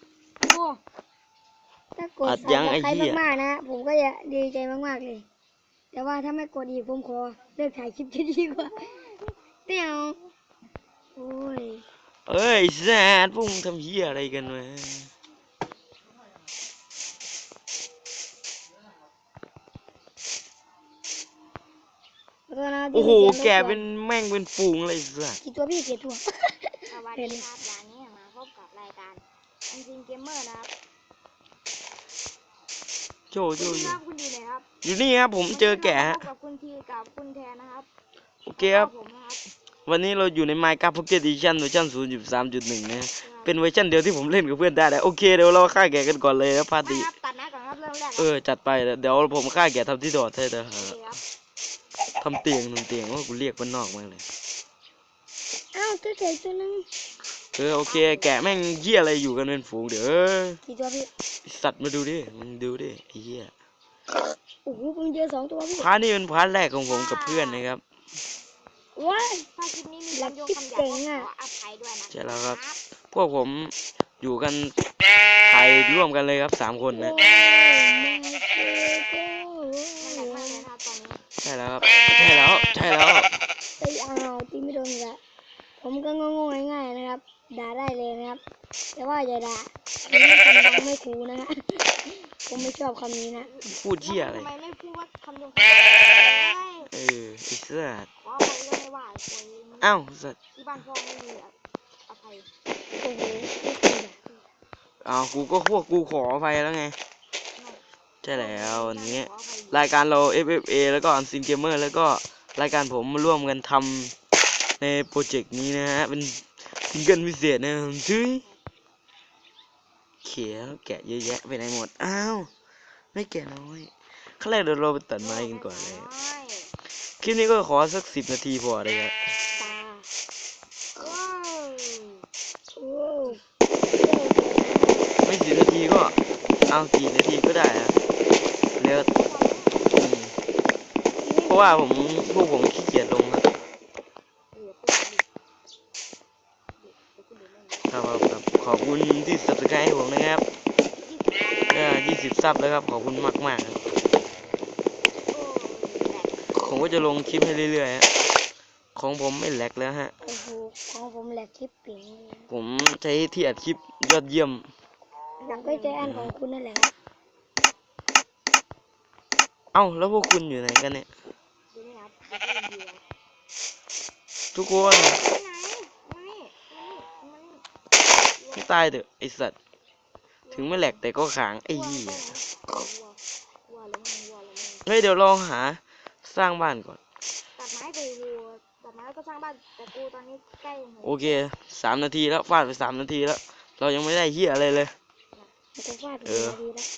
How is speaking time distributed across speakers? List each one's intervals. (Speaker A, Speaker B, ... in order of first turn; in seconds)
Speaker A: 0.4-0.8, 8.5-10.2, 26.9-30.7, 33.6-34.7, 35.5-37.9, 38.6-39.4, 43.2-43.6, 46.8-48.4, 50.8-51.2, 57.9-58.4, 66.9-67.7, 69.6-72.8, 80.0-81.2, 93.4-96.9, 98.2-100.0, 100.5-101.5, 102.1-102.5, 108.3-109.8, 125.2-126.7, 131.0-132.2, 138.9-139.9, 144.5-145.2, 146.8-147.9, 151.0-152.0, 155.3-156.4, 165.4-166.0, 171.7-173.0, 174.7-177.6, 178.4-179.0, 180.5-181.0, 181.7-184.9, 187.6-191.4
Speaker B: 1.9-5.3, 5.9-8.8, 9.7-10.2, 11.2-11.8, 22.5-23.9, 25.4-27.4, 55.7-56.9, 60.6-61.1, 64.7-65.9, 69.0-69.5, 70.1-71.3, 76.9-80.7, 83.8-85.2, 85.8-88.4, 89.0-91.9, 92.4-93.5, 103.0-104.2, 129.6-130.1, 132.7-133.4, 134.0-135.1, 141.2-141.9, 160.2-162.5, 165.4-166.9, 195.8-196.9
Speaker C: 2.2-3.2, 12.3-15.1, 22.9-25.4, 33.3-34.0, 34.8-36.3, 38.5-38.9, 39.9-47.1, 48.2-51.0, 52.2-54.2, 57.5-60.6, 61.5-63.5, 65.8-67.8, 72.1-74.8, 75.5-77.2, 81.4-83.3, 93.7-94.5, 96.9-98.1, 99.8-100.4, 105.0-107.0, 108.2-114.1, 114.8-118.4, 120.2-122.5, 123.1-126.1, 127.2-129.2, 135.2-138.0, 138.8-139.1, 139.9-140.3, 141.4-143.5, 147.9-150.4, 151.7-153.8, 156.5-158.1, 158.9-160.1, 162.5-164.7, 166.0-166.3, 169.7-171.1, 174.5-175.2, 178.5-179.6, 180.5-182.3, 184.9-187.0, 191.0-194.9, 196.2-196.6